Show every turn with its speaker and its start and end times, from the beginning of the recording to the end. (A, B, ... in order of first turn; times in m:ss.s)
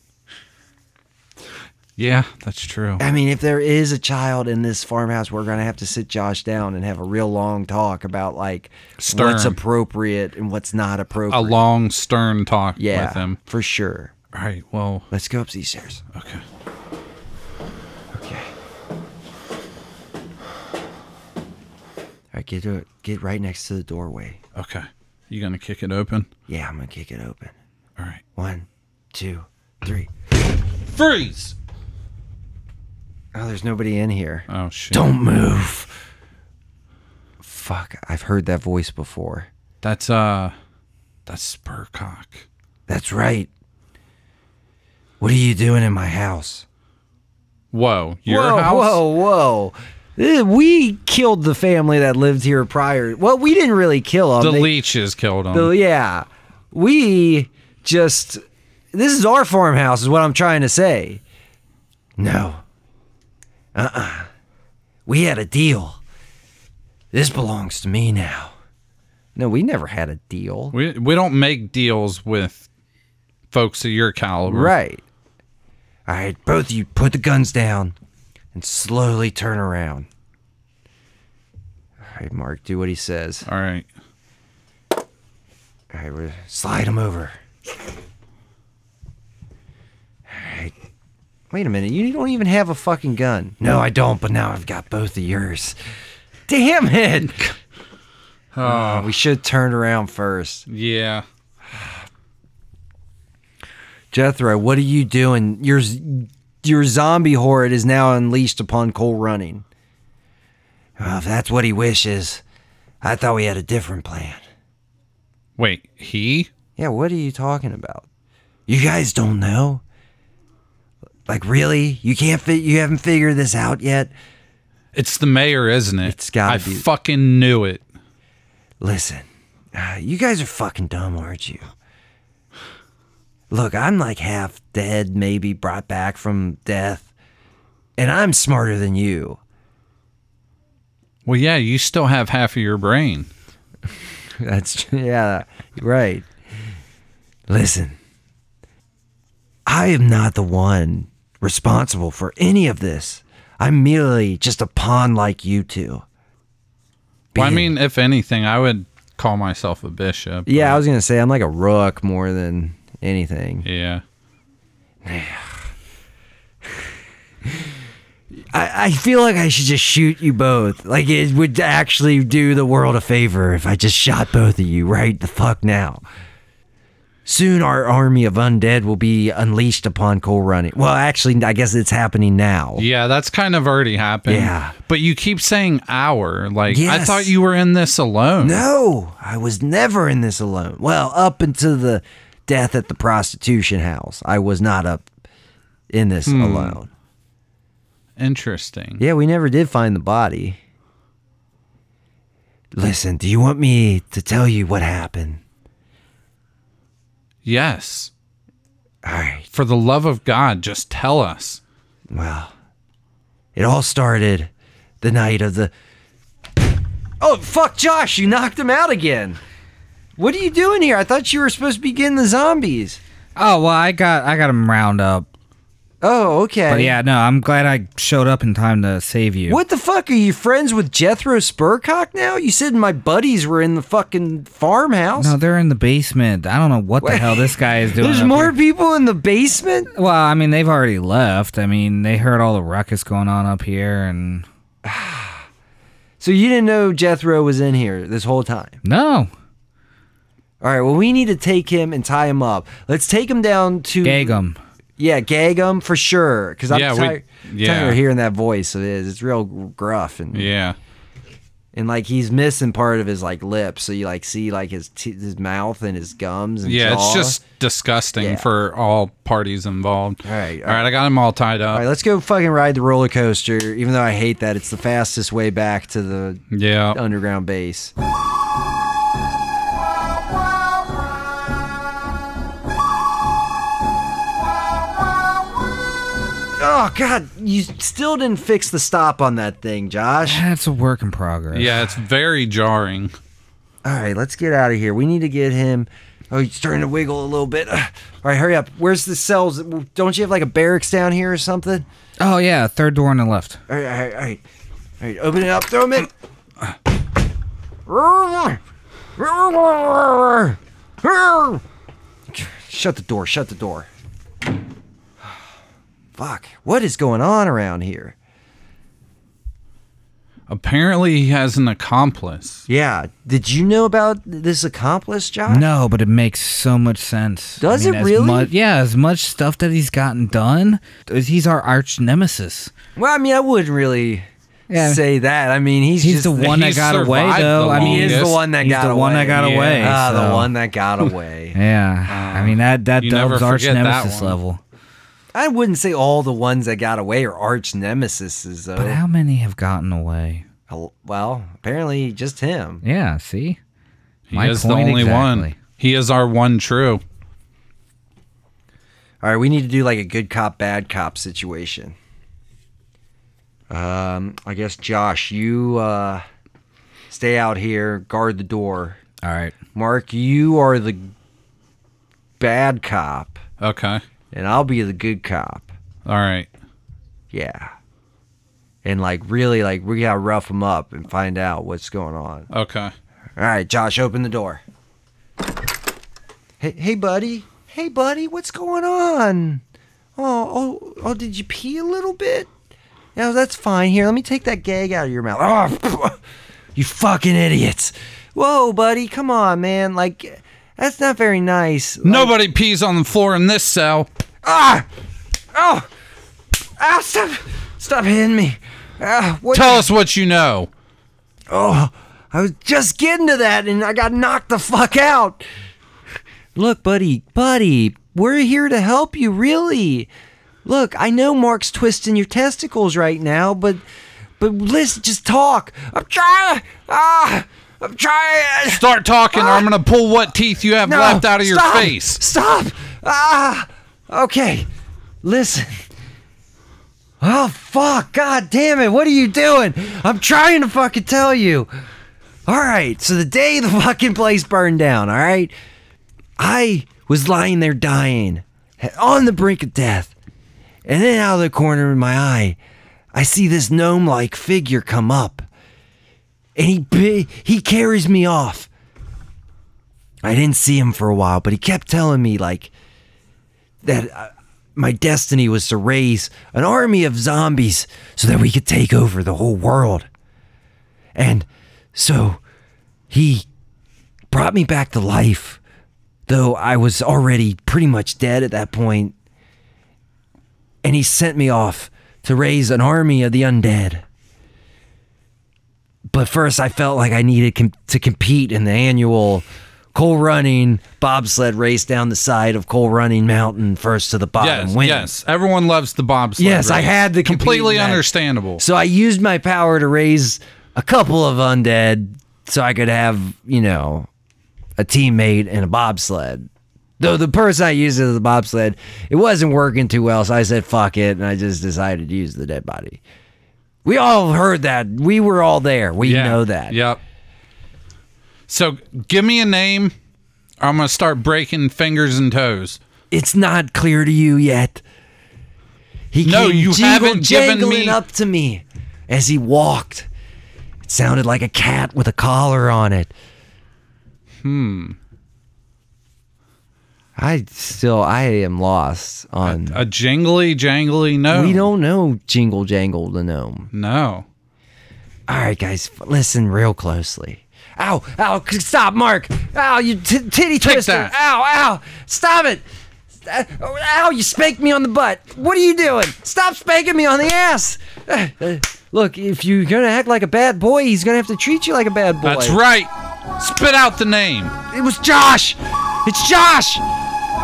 0:02.0-0:03.0 A
0:03.0-0:11.5 B
0:09.0-0:09.6 A
0:11.3-0:13.4 A
0:12.8-0:14.1 B
0:14.3-0:15.1 A
0:15.1-0:16.0 B
0:16.1-0:16.4 A
0:18.1-0:18.5 B
0:22.3-0:24.4 B
0:24.5-0:26.3 A
0:26.5-0:27.5 B
0:28.4-0:30.1 B
0:30.9-0:31.6 A
0:33.3-0:35.9 B
0:34.5-0:35.1 A
0:37.4-0:39.5 B
0:39.8-0:40.5 A
0:41.3-0:42.4 A
0:42.9-0:43.5 B
0:45.2-0:46.6 B
0:47.7-0:49.0 A
0:48.2-0:54.7 B
0:54.4-0:55.7 A
0:55.5-0:58.4 B
0:58.9-1:01.2 B
1:02.2-1:02.6 B
1:03.7-1:04.3 B
1:05.0-1:06.0 B
1:07.1-1:08.5 B
1:09.4-1:10.8 B
1:10.7-1:12.7 A
1:13.5-1:14.7 A
1:14.5-1:15.0 B
1:16.1-1:17.9 B
1:18.5-1:20.1 B
1:22.0-1:23.4 B
1:23.5-1:23.8 A
1:25.9-1:27.3 B
1:30.3-1:30.7 B
1:31.5-1:35.8 B
1:36.5-1:37.5 B
1:38.5-1:39.1 A
1:38.6-1:40.6 B
1:40.7-1:41.2 A
1:44.1-1:49.6 B
1:51.0-1:52.4 B
1:53.0-1:54.4 B
1:55.6-1:56.5 A
1:56.8-1:58.1 B
1:58.7-1:59.8 B
2:01.3-2:04.1 B
2:04.9-2:07.8 A
2:06.0-2:06.8 B
2:08.8-2:11.7 B
2:13.5-2:17.1 B
2:18.0-2:19.4 B
2:21.2-2:23.3 A
2:24.4-2:26.3 B
2:27.5-2:28.0 B
2:29.6-2:36.0 B
2:37.3-2:37.7 B
2:37.4-2:40.8 A
2:40.5-2:43.6 B
2:43.6-2:44.0 A
2:45.0-2:45.6 B
2:48.5-2:56.0 B
2:57.2-3:02.8 B
3:02.8-3:08.6 A
3:04.3-3:04.7 B
3:06.7-3:07.3 B
3:08.4-3:15.1 B
3:15.9-3:16.9 B
3:16.2-3:16.8 A
3:18.2-3:19.0 A
3:19.0-3:20.6 B
3:22.7-3:25.4 B
3:27.4-3:28.1 A
3:29.0-3:29.5 B
3:29.5-3:31.6 A
3:32.1-3:32.5 B
3:33.6-3:34.5 B
3:35.0-3:35.7 B
3:37.2-3:39.4 B
3:40.2-3:43.0 B
3:43.4-3:45.3 C
3:46.0-3:47.0 B
3:46.7-3:49.6 C
3:49.5-3:55.4 B
3:55.2-3:58.5 C
3:57.0-3:59.9 B
3:59.9-4:04.5 C
4:04.8-4:05.4 B
4:06.2-4:08.8 B
4:08.8-4:09.3 C
4:10.6-4:14.4 B
4:14.0-4:14.6 C
4:15.0-4:20.5 B
4:16.7-4:18.0 A
4:20.3-4:20.8 A
4:21.7-4:27.4 B
4:26.6-4:31.8 A
4:28.2-4:28.4 B
4:30.2-4:30.8 B
4:31.7-4:37.9 B
4:36.5-4:37.0 A
4:46.6-4:50.4 B
4:50.2-4:51.9 C
4:51.5-4:53.1 A
4:53.8-5:01.8 B
5:02.2-5:03.6 C
5:03.7-5:04.4 B
5:05.0-5:06.1 B
5:07.9-5:08.6 B
5:09.2-5:11.6 B
5:12.3-5:13.9 B
5:16.2-5:18.1 B
5:20.5-5:22.6 A
5:22.7-5:25.6 B
5:25.5-5:32.7 C
5:27.6-5:28.5 B
5:33.0-5:36.7 B
5:34.7-5:35.0 C
5:36.0-5:40.5 C
5:36.4-5:38.4 A
5:37.7-5:41.6 B
5:39.3-5:39.9 A
5:41.5-5:44.6 C
5:42.1-5:44.4 A
5:45.3-5:49.0 B
5:48.8-5:50.4 C
5:50.7-5:52.8 B
5:52.8-5:53.6 C
5:54.3-5:57.0 A
5:54.3-5:55.6 C
5:59.2-6:02.0 B
6:03.7-6:06.2 B
6:07.1-6:09.0 B
6:09.2-6:09.6 C
6:09.7-6:11.1 B
6:12.4-6:13.4 B
6:13.6-6:14.0 A
6:14.3-6:15.7 B
6:16.0-6:16.5 A
6:17.3-6:17.7 B
6:18.8-6:22.5 B
6:22.5-6:22.9 A
6:23.4-6:24.6 B
6:26.6-6:29.6 B
6:30.2-6:32.5 B
6:33.2-6:36.2 B
6:36.8-6:42.3 B
6:42.0-6:44.1 A
6:44.4-6:44.8 B
6:45.5-6:45.9 B
6:46.8-6:49.9 B
6:49.5-6:50.7 A
6:51.5-6:55.4 B
6:56.5-7:00.1 B
7:00.6-7:03.8 B
7:04.4-7:08.8 B
7:08.7-7:12.2 A
7:09.3-7:09.6 B
7:10.8-7:14.7 B
7:15.2-7:15.8 B
7:17.2-7:21.7 B
7:22.4-7:25.5 B
7:26.4-7:30.1 B
7:30.8-7:32.6 B
7:33.1-7:35.4 B
7:36.6-7:38.7 B
7:40.2-7:42.7 B
7:43.8-7:50.1 B
7:51.1-7:52.4 B
7:53.1-7:53.4 B
7:54.3-7:55.6 B
7:56.3-7:59.1 B
8:00.8-8:04.0 B
8:06.1-8:15.1 B
8:14.4-8:18.6 A
8:16.4-8:18.0 B
8:18.6-8:24.1 B
8:24.8-8:26.5 B
8:27.0-8:33.0 B
8:33.8-8:36.8 B
8:36.0-8:37.0 A
8:38.5-8:39.9 A
8:40.6-8:42.8 A
8:43.1-8:44.8 B
8:46.1-8:50.1 B
8:46.2-8:48.0 A
8:50.8-8:53.1 B
8:54.4-8:55.0 A
8:57.2-8:59.8 B
8:59.4-9:01.7 A
9:01.3-9:03.7 B
9:03.7-9:04.2 A
9:05.3-9:12.6 B
9:10.6-9:11.1 A
9:13.2-9:22.6 B
9:22.2-9:24.5 A
9:24.7-9:26.8 B